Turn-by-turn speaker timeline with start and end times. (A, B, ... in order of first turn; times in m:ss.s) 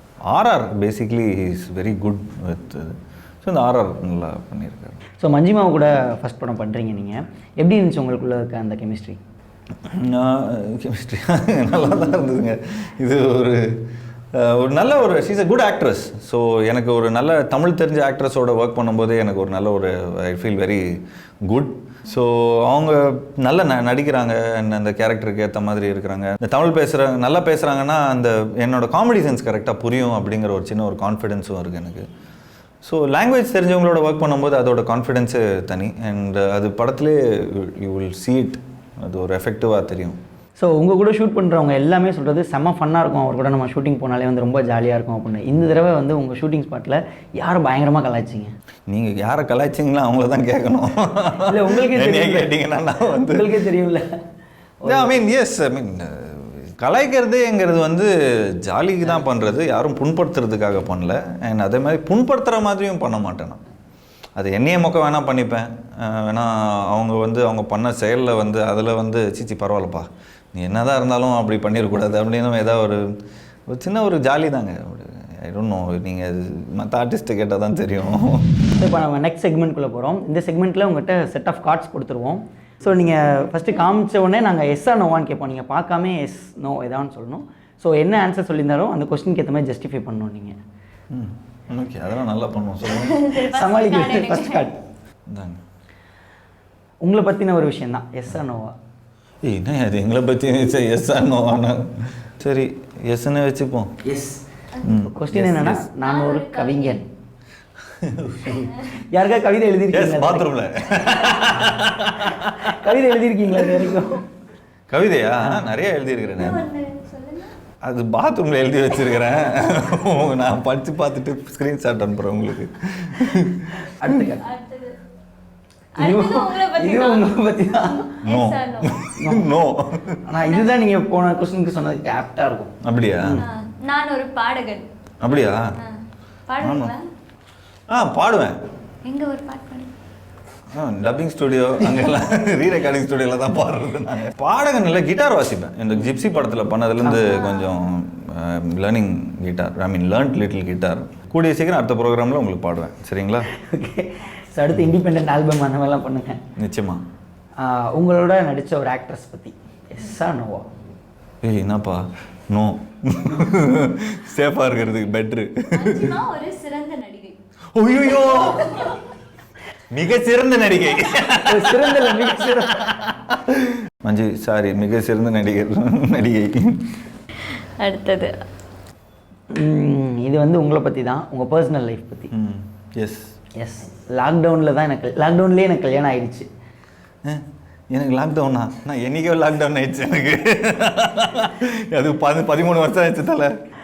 0:00.3-0:05.0 A
0:05.2-0:09.2 B
0:09.9-0:13.8 A
0:14.3-0:20.8 A
0:21.5-0:32.0 A
0:32.8-0:40.2 A
0:40.6-0:48.5 B
0:48.9-0:53.6 A
0:51.4-0:52.5 B
0:53.0-0:54.1 B
0:54.8-0:55.2 B
0:54.8-1:03.6 A
1:04.4-1:13.0 A
1:13.7-1:18.6 A
1:18.8-1:30.6 B
1:31.1-1:33.2 A
1:32.8-1:34.7 C
1:33.4-1:34.8 B
1:35.3-1:35.6 A
1:37.0-1:38.7 B
1:39.4-1:43.9 A
1:44.0-1:44.4 B
1:44.8-1:45.9 A
1:45.1-1:47.0 B
1:46.0-1:47.0 C
1:48.0-1:48.7 A
1:48.5-1:48.9 C
1:49.1-1:50.5 B
1:49.9-1:53.0 A
1:52.2-1:54.2 B
1:53.6-1:53.9 A
1:54.9-1:56.6 A
1:56.3-1:57.5 C
1:57.8-2:03.9 A
2:04.0-2:04.4 B
2:04.2-2:04.9 C
2:06.0-2:09.0 C
2:06.0-2:08.2 B
2:08.2-2:10.2 A
2:09.2-2:09.5 B
2:10.2-2:13.4 B
2:12.8-2:13.4 A
2:13.4-2:14.9 C
2:15.2-2:15.6 A
2:15.8-2:17.0 C
2:16.6-2:16.9 A
2:17.9-2:18.6 A
2:19.0-2:19.9 C
2:20.7-2:33.5 A
2:27.0-2:27.5 B
2:33.5-2:36.4 B
2:36.6-2:37.0 A
2:37.6-2:40.7 B
2:41.4-2:46.2 A
2:45.7-2:47.4 C
2:47.7-2:49.0 A
2:48.3-2:49.0 C
2:49.9-2:57.0 A
2:51.4-2:53.0 B
2:57.8-2:58.4 C
2:59.5-3:02.3 B
3:02.3-3:03.3 A
3:03.6-3:06.5 B
3:07.2-3:13.5 A